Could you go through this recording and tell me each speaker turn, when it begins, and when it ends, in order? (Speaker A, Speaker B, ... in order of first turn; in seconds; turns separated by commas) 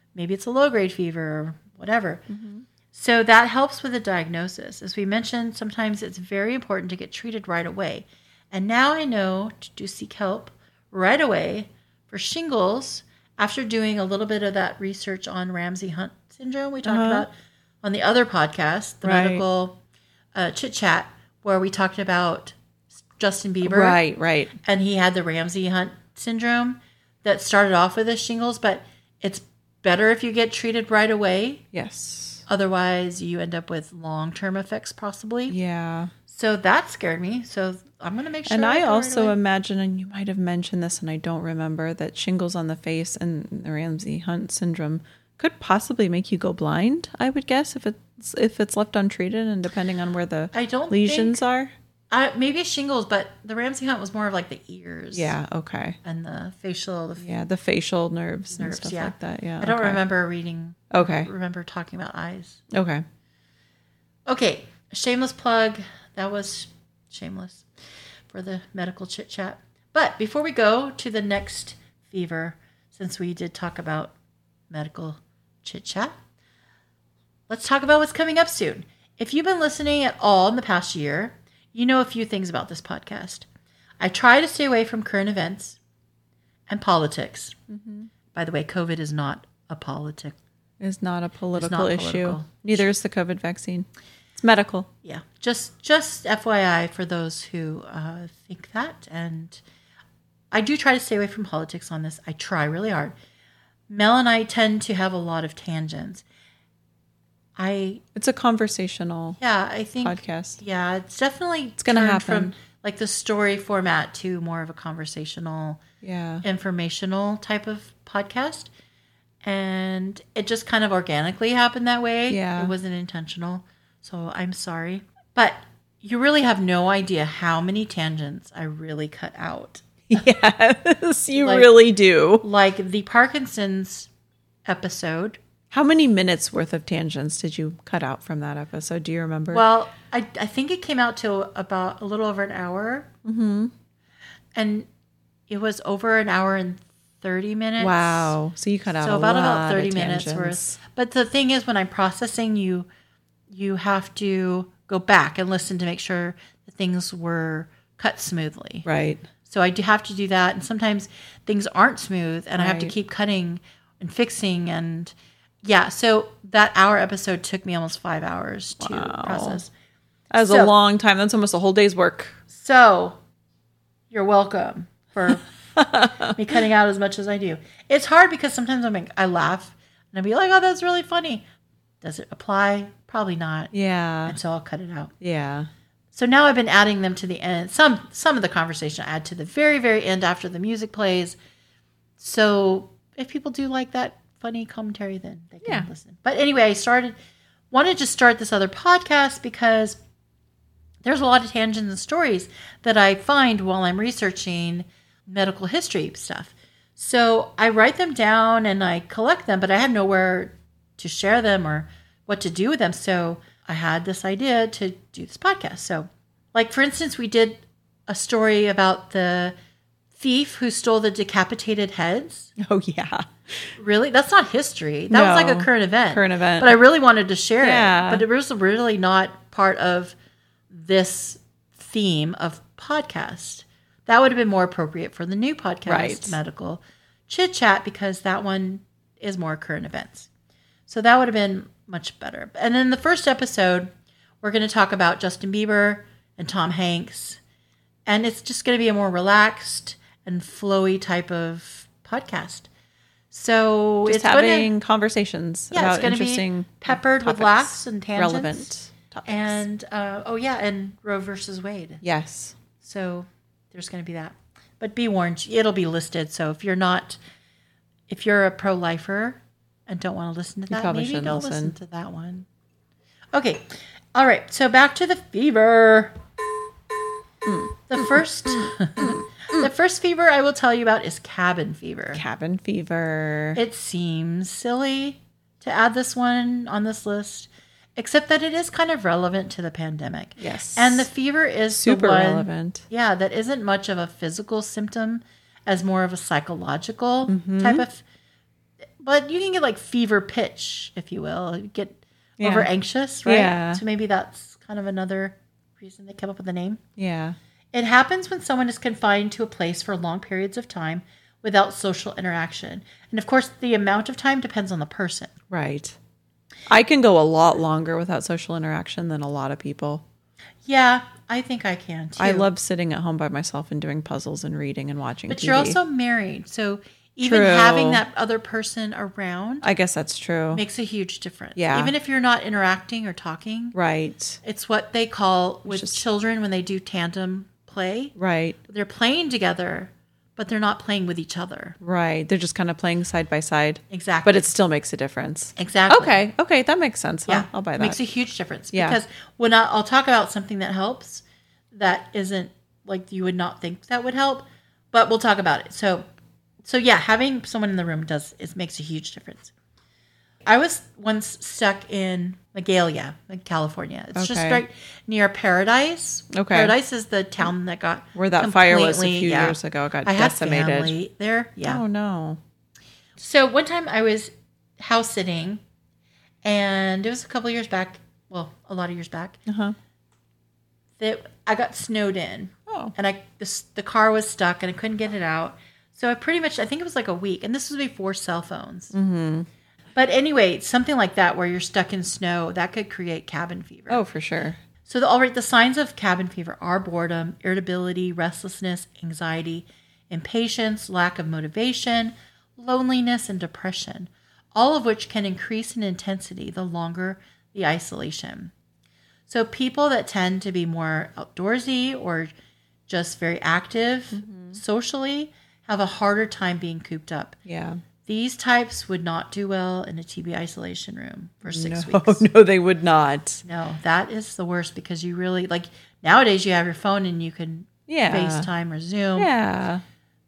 Speaker A: 0.1-2.3, Speaker B: 2.3-2.6, Speaker A: 2.9-17.3, Speaker B: 16.9-17.3, Speaker A: 17.8-19.8, Speaker B: 19.0-19.4, Speaker A: 20.4-22.6, Speaker A: 23.1-24.0, Speaker B: 23.6-24.5, Speaker A: 24.6-31.6, Speaker B: 31.7-32.4, Speaker A: 32.5-35.6, Speaker B: 35.5-36.1, Speaker A: 36.3-39.4, Speaker B: 38.5-51.7, Speaker A: 50.5-51.4, Speaker A: 52.1-55.4, Speaker B: 55.1-56.0, Speaker A: 56.0-57.3, Speaker B: 57.2-60.0, Speaker A: 58.5-62.6, Speaker B: 60.9-61.3, Speaker B: 62.7-63.0, Speaker A: 64.3-67.7, Speaker A: 68.3-74.1, Speaker A: 74.7-76.1, Speaker A: 77.5-83.5, Speaker A: 84.0-85.8, Speaker A: 86.7-87.6, Speaker B: 87.7-88.1, Speaker A: 88.3-90.4, Speaker B: 90.8-94.9, Speaker A: 91.5-92.9, Speaker A: 95.0-99.6, Speaker A: 100.5-103.1, Speaker A: 103.9-106.2, Speaker A: 107.6-108.0, Speaker B: 108.1-109.4, Speaker A: 109.4-115.8, Speaker B: 110.0-110.6, Speaker B: 111.8-112.5, Speaker B: 116.0-116.4, Speaker A: 116.4-118.7, Speaker A: 119.4-130.3, Speaker B: 122.3-122.7, Speaker B: 130.1-132.4, Speaker A: 131.4-131.7, Speaker A: 132.4-134.1, Speaker A: 134.7-135.4, Speaker B: 135.7-139.6, Speaker A: 139.5-143.1, Speaker B: 143.2-143.7, Speaker A: 144.6-144.9, Speaker A: 145.5-148.3, Speaker B: 147.8-150.8, Speaker A: 149.0-152.9, Speaker A: 153.5-158.9, Speaker B: 158.8-159.2, Speaker A: 159.4-169.7, Speaker B: 162.6-162.9, Speaker B: 168.8-169.6, Speaker B: 170.3-172.4, Speaker A: 170.4-170.7, Speaker A: 172.5-173.2, Speaker A: 174.1-175.5, Speaker B: 175.8-176.4, Speaker A: 176.2-181.4, Speaker A: 182.0-183.7, Speaker B: 183.7-184.4, Speaker A: 184.2-185.1, Speaker B: 185.2-185.7, Speaker A: 186.1-191.4, Speaker A: 192.2-197.1, Speaker A: 197.7-200.0, Speaker A: 201.0-219.5, Speaker A: 220.1-222.5, Speaker B: 222.6-223.7, Speaker A: 223.8-230.1, Speaker B: 225.1-226.7, Speaker B: 227.6-228.2, Speaker A: 230.7-240.3, Speaker B: 235.9-236.4, Speaker A: 240.9-243.9, Speaker A: 244.4-247.4, Speaker A: 248.1-252.7, Speaker A: 253.3-254.7, Speaker B: 254.1-259.6, Speaker A: 255.7-258.7, Speaker A: 259.2-262.0, Speaker B: 262.0-262.6, Speaker A: 262.8-267.2, Speaker A: 268.1-272.5, Speaker B: 270.7-271.8, Speaker A: 273.3-276.1, Speaker B: 277.5-279.7, Speaker A: 277.9-282.2, Speaker B: 282.1-283.6, Speaker A: 283.5-298.0, Speaker B: 290.4-291.1, Speaker B: 291.7-292.9, Speaker B: 297.3-297.9, Speaker A: 299.0-306.8, Speaker B: 302.4-302.7, Speaker B: 303.2-303.8, Speaker B: 307.0-307.4, Speaker A: 307.7-315.3, Speaker B: 315.5-316.0, Speaker B: 316.7-320.0, Speaker A: 320.6-322.5, Speaker B: 322.2-325.8, Speaker A: 325.3-329.7, Speaker B: 327.2-328.0, Speaker B: 329.6-330.6, Speaker A: 330.5-333.8, Speaker B: 331.6-331.9, Speaker B: 333.7-334.4, Speaker A: 334.4-338.1, Speaker B: 335.7-336.0, Speaker B: 338.1-338.6, Speaker A: 338.7-341.8, Speaker B: 341.8-348.0, Speaker A: 343.9-344.4, Speaker A: 345.6-346.2, Speaker A: 347.3-356.0, Speaker B: 348.7-349.0, Speaker A: 356.6-359.5, Speaker A: 360.5-371.8, Speaker B: 364.1-364.6, Speaker B: 366.3-366.8, Speaker B: 368.1-370.9, Speaker B: 371.6-372.4, Speaker A: 373.2-375.6, Speaker A: 376.4-379.4, Speaker B: 379.5-379.8, Speaker A: 381.0-388.9, Speaker B: 382.7-382.9, Speaker B: 388.9-389.5, Speaker A: 390.0-394.0, Speaker B: 393.9-394.6, Speaker A: 394.8-408.5, Speaker A: 409.3-412.3, Speaker A: 412.9-417.4, Speaker B: 414.1-414.6, Speaker B: 417.5-417.8, Speaker A: 418.0-422.2, Speaker B: 421.5-423.4, Speaker A: 423.4-429.3, Speaker B: 427.9-428.5, Speaker B: 429.1-429.8